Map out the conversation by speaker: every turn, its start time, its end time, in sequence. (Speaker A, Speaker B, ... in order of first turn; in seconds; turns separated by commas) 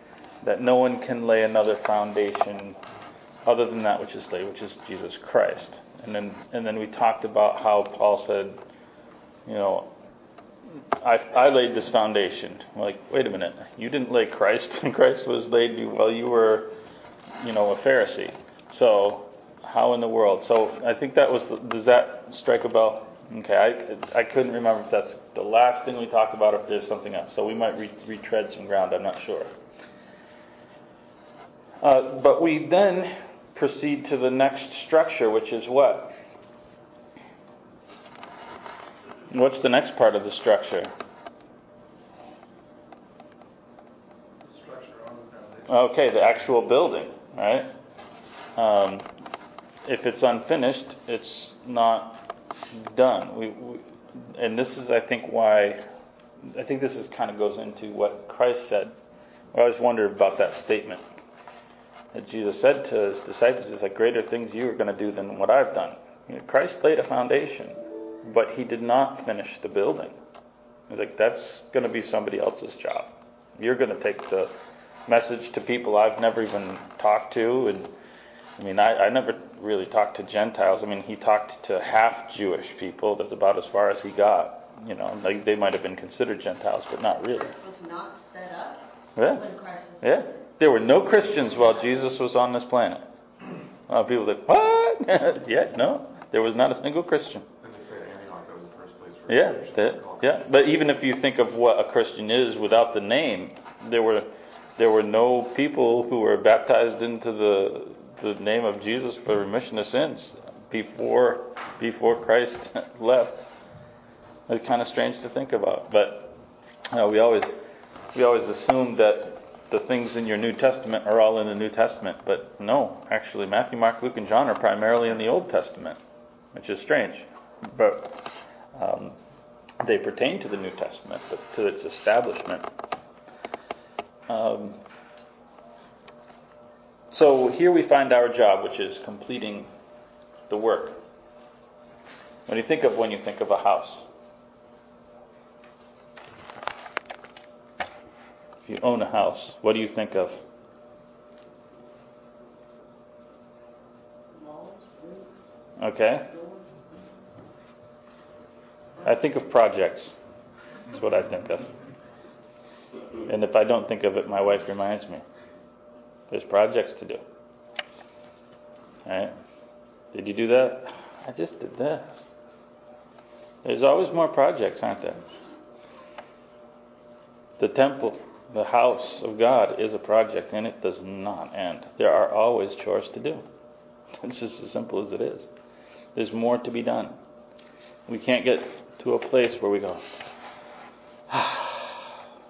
Speaker A: 0.4-2.8, Speaker A: 3.4-8.6, Speaker A: 9.5-9.9, Speaker A: 11.0-16.7, Speaker A: 17.4-29.5, Speaker A: 31.8-36.1, Speaker A: 39.3-40.9, Speaker B: 44.4-45.7, Speaker A: 45.7-47.7, Speaker A: 48.6-49.1, Speaker A: 49.8-55.8, Speaker A: 56.4-58.9, Speaker A: 59.5-61.0, Speaker A: 62.1-70.2, Speaker A: 70.9-74.5, Speaker A: 75.1-77.9, Speaker A: 78.6-87.5, Speaker C: 87.2-92.0, Speaker A: 89.2-89.4, Speaker A: 90.0-93.1, Speaker A: 93.9-97.5, Speaker B: 97.6-100.5, Speaker A: 99.3-113.4, Speaker A: 114.5-116.3, Speaker A: 116.9-117.5, Speaker A: 118.1-126.0, Speaker A: 126.5-128.2, Speaker A: 128.7-129.2, Speaker A: 129.8-132.7, Speaker A: 134.3-134.8, Speaker A: 137.1-139.7, Speaker A: 140.5-141.0, Speaker A: 142.5-144.1, Speaker A: 148.7-150.4, Speaker C: 154.3-155.4, Speaker A: 155.8-156.3, Speaker C: 156.1-157.1, Speaker A: 159.0-160.1, Speaker A: 160.9-161.7, Speaker A: 163.3-165.2, Speaker A: 166.3-167.2, Speaker A: 169.1-169.3, Speaker A: 170.1-172.3, Speaker A: 173.6-175.2, Speaker A: 177.6-183.4, Speaker A: 184.2-185.5, Speaker A: 186.2-187.2, Speaker A: 188.1-190.0, Speaker A: 191.3-192.1